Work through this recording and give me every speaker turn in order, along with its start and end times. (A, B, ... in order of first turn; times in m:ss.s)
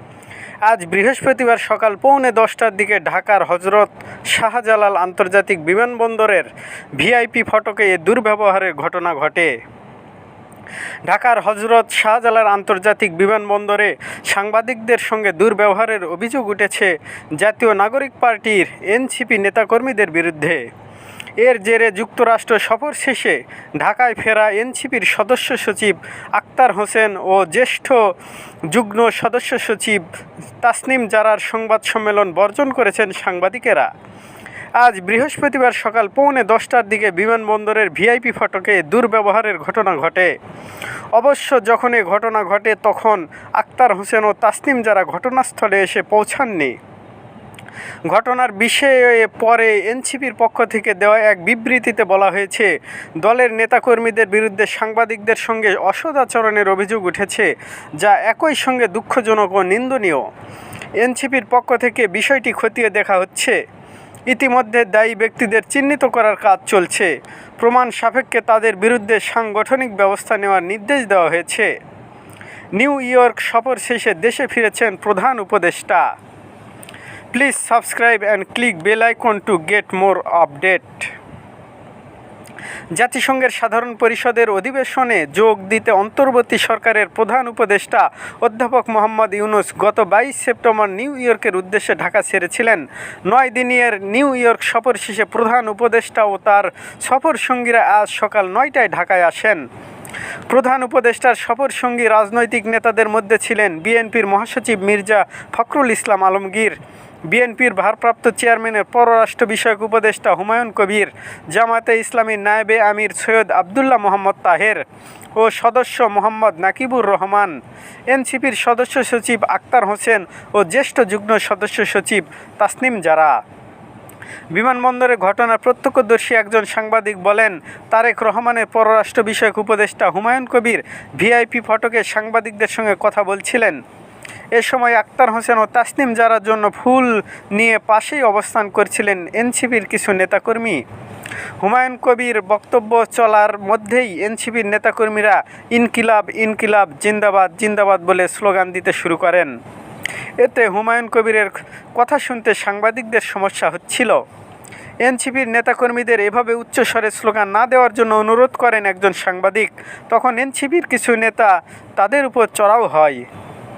0:00.7-0:09.5 A
0:11.1-0:20.6 A
0:21.4-0:28.1 A
0:28.7-0:30.0 A
0:30.6-0:33.9 A
0:34.8-0:40.3 A
0:41.1-0:46.8 A
0:48.1-1:00.3 A
1:01.0-1:03.6 A
1:04.3-1:11.7 A
1:12.8-1:16.1 A
1:17.3-1:21.1 A
1:23.0-1:39.6 A
1:40.5-1:46.8 A
1:47.3-1:54.8 A
1:55.4-1:57.6 A
1:58.1-2:03.4 A
2:04.5-2:13.8 A
2:14.6-2:20.8 A
2:21.6-2:29.5 A
2:30.4-2:34.2 A
2:35.0-2:43.2 A